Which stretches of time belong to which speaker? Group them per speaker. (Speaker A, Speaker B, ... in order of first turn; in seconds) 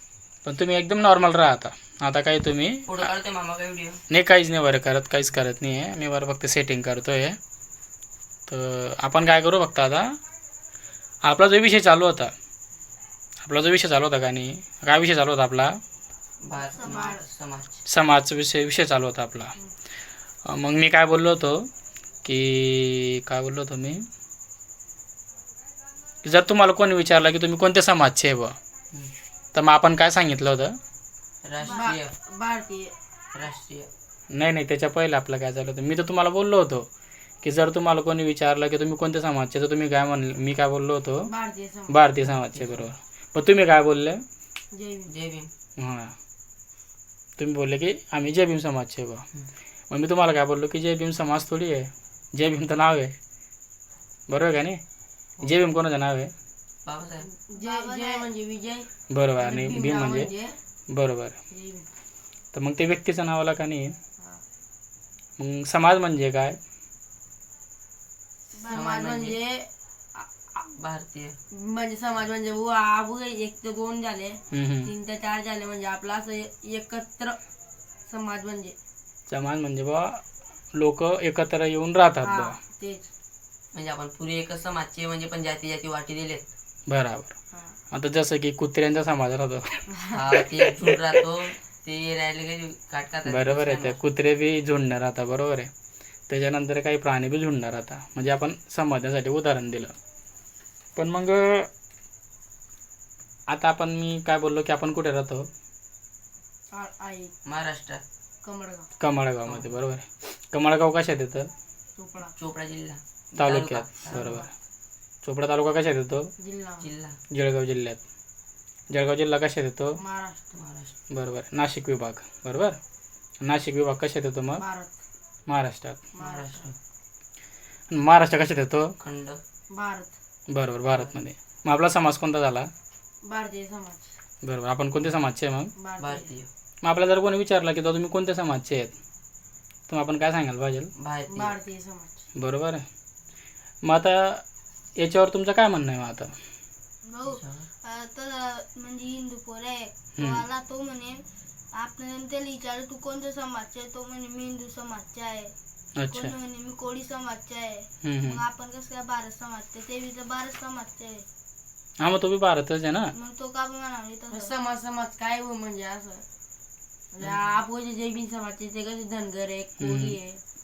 Speaker A: 0.4-3.1, 4.1-7.4, 8.5-10.1, 11.2-12.3, 13.4-15.8, 17.9-19.5, 20.4-21.6, 22.2-24.0, 26.2-28.6, 29.5-30.7, 34.3-36.9, 37.4-41.3, 41.9-44.2, 45.8-46.1, 47.4-49.2, 49.9-53.1, 54.3-54.8, 55.4-56.3, 59.1-60.3, 60.9-61.4, 62.5-63.9, 65.4-66.6, 74.5-74.9, 79.3-80.2, 80.7-82.6, 86.9-87.3, 87.9-89.8, 93.2-95.7, 96.3-99.9, 101.0-101.7, 103.5-105.5, 109.0-111.5, 113.4-114.5, 115.2-116.3, 117.3-118.0, 118.9-120.0, 121.1-122.8, 123.4-124.6, 125.5-126.0, 127.9-128.9, 130.5-132.7, 134.4-135.7, 136.8-138.9, 139.9-140.9, 142.3-142.8, 143.8-144.4, 145.0-146.3, 150.2-150.4, 156.0-156.3, 158.0-158.4, 162.0-163.1, 169.8-170.1
Speaker B: 2.9-4.0, 16.4-17.8, 31.4-32.1, 33.3-33.9, 42.3-42.9, 45.1-45.5, 56.8-57.3, 68.7-69.4, 70.7-71.3, 83.7-86.4, 90.1-94.0, 107.5-108.0, 109.5-109.8, 112.3-114.4, 116.8-117.2, 120.5-120.9, 126.2-126.8, 129.0-129.4, 130.9-131.2, 136.0-136.5, 141.0-141.6, 147.2-147.7
Speaker C: 16.7-17.1, 31.6-31.9, 57.5-58.3, 147.1-155.5, 156.1-161.2, 163.1-164.5
Speaker D: 16.8-17.2, 31.7-32.9, 41.3-42.0, 44.7-45.1, 57.2-60.5, 61.5-61.9, 68.6-70.6, 71.5-77.4, 78.0-78.8, 82.2-83.1, 87.5-87.8, 89.9-90.3, 106.7-107.3, 108.4-108.9, 112.0-112.3, 114.1-114.5, 116.4-116.9, 120.0-120.4, 124.6-125.0, 126.1-126.7, 129.7-130.1, 133.2-134.1, 135.8-136.3, 141.3-142.2, 164.3-166.2, 167.1-170.4